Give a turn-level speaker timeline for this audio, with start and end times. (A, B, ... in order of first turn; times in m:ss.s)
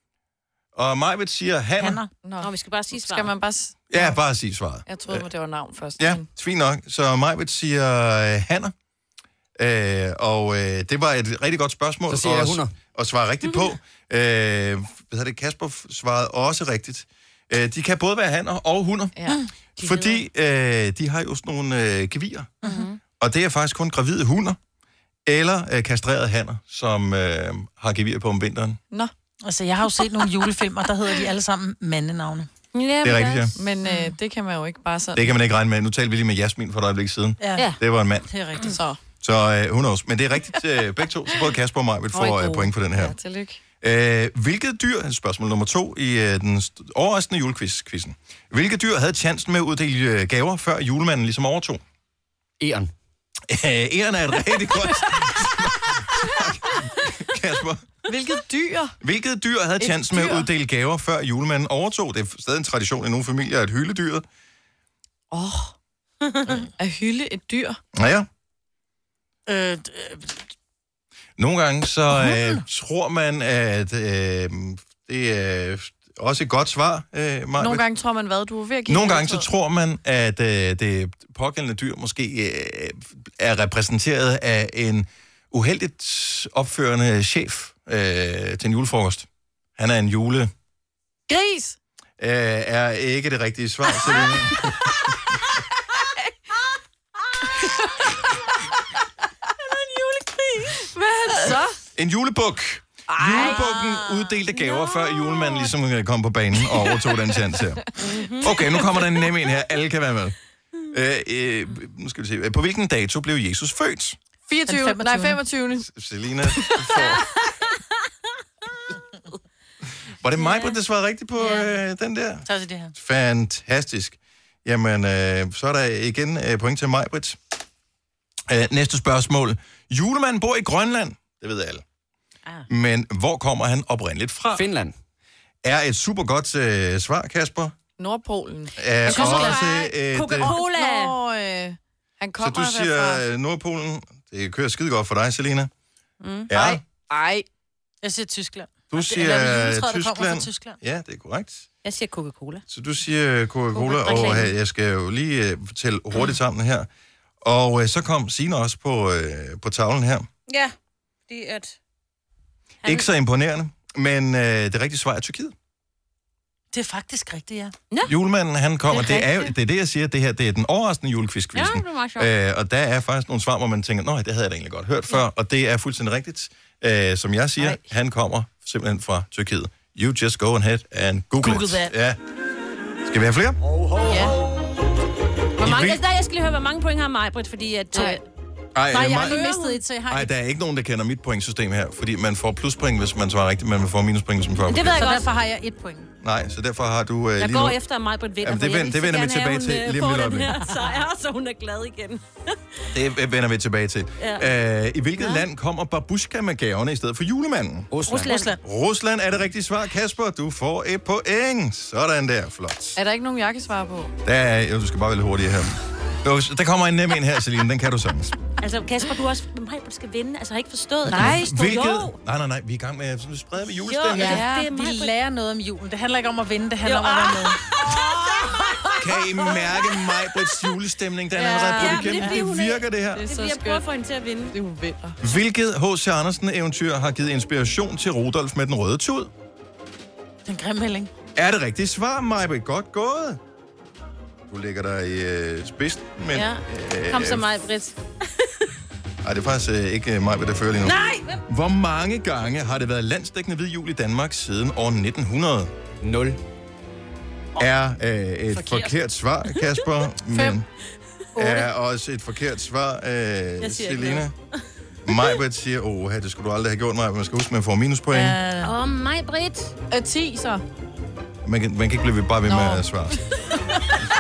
0:00.8-0:02.0 A
0:01.8-0:02.1 B
0:02.2-0:04.2 C
0:02.4-0:03.3 D
0:03.9-0:05.2 A
0:04.9-0:06.3 C
0:06.0-0:08.7 A
0:09.6-0:19.2 A
0:12.1-0:12.7 E
0:19.8-0:22.5 A
0:19.8-0:20.2 D
0:22.6-0:23.0 D
0:23.2-0:24.6 A
0:25.3-0:28.8 A
0:29.4-0:32.5 B
0:32.7-0:33.6 D
0:33.0-0:33.6 A
0:33.6-0:35.3 C
0:33.8-0:34.2 B
0:35.2-0:38.3 A
0:37.4-0:37.8 B
0:38.3-0:38.8 B
0:38.6-0:39.0 C
0:39.2-0:43.2 A
0:42.1-0:43.6 C
0:43.8-0:51.8 A
0:52.6-0:52.9 E
0:53.5-0:57.9 A
0:58.1-0:59.0 C
0:59.0-1:04.2 A
0:59.8-1:00.5 C
1:05.3-1:05.8 C
1:06.5-1:07.8 C
1:07.9-1:08.3 A
1:09.5-1:10.4 B
1:11.4-1:17.9 A
1:12.1-1:12.6 B
1:17.6-1:19.5 C
1:18.9-1:30.5 A
1:31.3-1:31.8 C
1:32.2-1:35.0 A
1:37.6-1:38.1 C
1:39.7-1:40.8 B
1:40.7-1:41.8 C
1:42.0-1:50.4 A
1:43.2-1:43.5 C
1:43.2-1:44.4 B
1:48.0-1:49.0 D
1:50.9-1:54.2 A
1:54.5-1:55.9 C
1:54.7-1:55.4 B
1:55.8-1:57.3 A
1:56.5-1:57.1 C
2:00.2-2:07.4 A
2:00.4-2:00.8 D
2:02.5-2:02.9 B
2:08.5-2:11.8 A
2:12.7-2:14.6 A
2:14.5-2:14.9 E
2:15.6-2:17.8 A
2:18.0-2:18.7 C
2:18.8-2:20.5 A
2:19.1-2:21.2 D
2:19.1-2:19.7 B
2:20.4-2:23.2 C
2:22.4-2:25.7 A
2:26.2-2:26.5 D
2:26.5-2:26.8 A
2:26.5-2:27.5 C
2:28.0-2:30.8 B
2:28.9-2:31.7 A
2:31.8-2:32.6 D
2:32.7-2:36.9 A
2:33.7-2:34.5 D
2:37.4-2:40.3 A
2:40.5-2:40.7 D
2:41.3-2:41.8 D
2:42.8-2:45.6 A
2:46.7-2:47.7 B
2:48.1-3:02.2 A
2:48.9-2:49.5 D
2:51.5-2:52.3 D
3:01.4-3:01.9 B
3:03.0-3:03.6 A
3:04.1-3:04.4 C
3:05.6-3:06.0 A
3:05.6-3:08.2 D
3:08.8-3:09.4 A
3:08.9-3:10.3 B
3:09.2-3:09.8 D
3:10.1-3:15.1 A
3:14.7-3:15.3 D
3:14.9-3:16.1 B
3:16.2-3:17.8 A
3:17.4-3:22.9 D
3:18.4-3:20.6 A
3:22.9-3:27.9 A
3:24.2-3:24.5 D
3:25.2-3:25.4 D
3:27.9-3:28.5 E
3:28.1-3:28.6 B
3:28.1-3:28.4 D
3:28.6-3:33.0 A
3:33.0-3:34.1 C
3:34.2-3:38.4 A
3:38.6-3:42.2 D
3:41.1-3:44.4 A
3:43.9-3:45.1 D
3:44.2-3:47.6 B
3:46.8-3:50.0 D
3:49.0-3:53.3 A
3:51.4-3:54.6 D
3:51.8-3:52.1 C
3:52.0-3:52.4 B
3:53.2-3:53.8 C
3:54.5-3:55.2 C
3:55.2-3:59.3 A
4:00.5-4:01.1 B
4:01.4-4:03.4 A
4:04.5-4:07.5 A
4:06.3-4:08.7 D
4:09.2-4:15.7 A
4:10.8-4:11.4 D
4:16.0-4:16.4 E
4:17.6-4:20.7 A
4:18.6-4:18.9 B
4:21.4-4:24.3 A
4:23.6-4:24.3 D
4:25.1-4:28.4 A
4:28.1-4:28.7 B
4:28.6-4:29.7 D
4:29.9-4:30.6 C
4:31.4-4:33.2 A
4:32.5-4:32.9 C